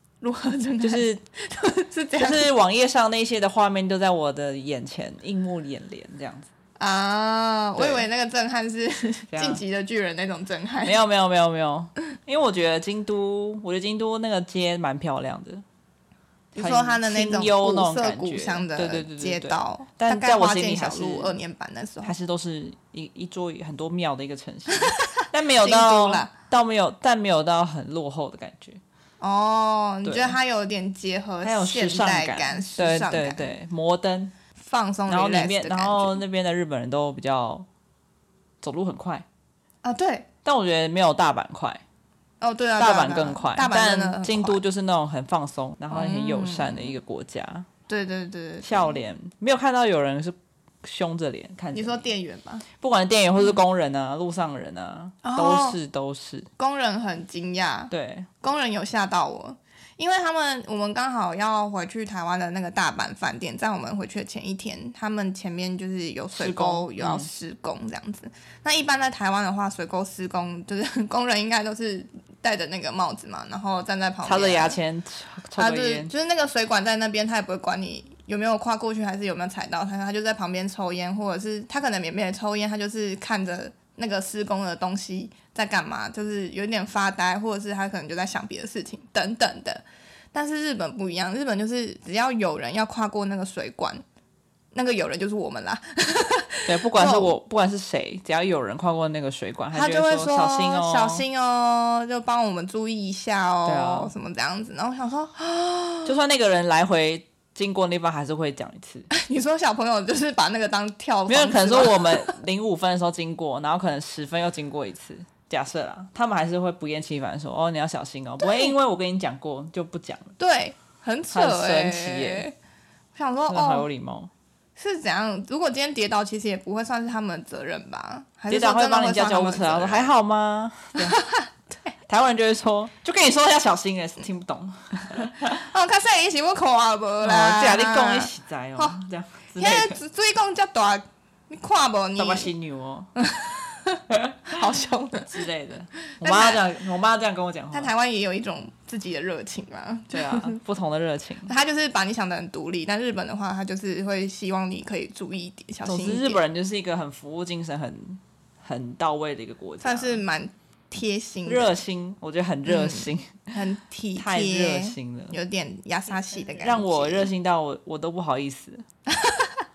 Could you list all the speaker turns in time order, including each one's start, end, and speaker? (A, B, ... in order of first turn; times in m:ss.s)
0:00.2-0:02.5 A
0:00.8-0:01.2 B
0:02.2-0:06.5 B
0:06.8-0:11.0 A
0:07.8-0:08.0 B
0:09.3-0:09.6 B
0:10.8-0:15.6 B
0:16.5-0:22.1 A
0:16.6-0:21.4 B
0:22.0-0:28.8 B
0:24.7-0:26.3 A
0:29.2-0:33.5 A
0:30.0-0:30.4 B
0:31.4-0:34.3 B
0:34.6-0:36.2 A
0:35.1-0:37.6 B
0:38.6-0:39.2 B
0:39.8-0:40.3 A
0:40.4-0:41.8 B
0:42.4-0:44.6 A
0:42.8-0:47.7 B
0:45.9-0:46.9 A
0:47.9-0:49.0 A
0:48.6-0:52.0 B
0:51.7-0:52.6 A
0:52.8-0:56.5 B
0:55.2-0:55.8 A
0:56.6-0:57.9 A
0:57.9-0:58.3 B
0:58.4-1:14.8 A
1:06.3-1:07.3 B
1:14.2-1:16.1 B
1:15.6-1:34.0 A
1:34.7-1:37.3 A
1:36.6-1:41.2 B
1:39.7-1:46.1 A
1:43.6-1:44.1 B
1:46.0-1:49.1 B
1:49.1-1:52.4 A
1:51.3-2:00.3 B
1:58.4-1:58.7 A
2:00.4-2:02.5 A
2:01.3-2:02.4 B
2:03.2-2:03.9 A
2:03.5-2:04.3 B
2:04.8-2:10.1 A
2:08.5-2:11.2 B
2:11.0-2:11.9 A
2:12.1-2:15.6 B
2:15.4-2:19.0 A
2:17.2-2:20.0 B
2:19.6-2:22.5 A
2:22.2-2:23.1 B
2:23.2-2:25.4 A
2:24.1-2:24.5 B
2:25.3-2:27.9 B
2:26.1-2:26.6 A
2:27.7-2:30.6 A
2:30.1-2:31.5 B
2:31.5-2:36.4 A
2:35.8-2:40.2 B
2:39.8-2:41.8 A
2:41.4-2:43.5 B
2:42.6-2:47.3 A
2:44.2-2:45.3 B
2:46.6-2:48.8 B
2:49.1-2:49.6 A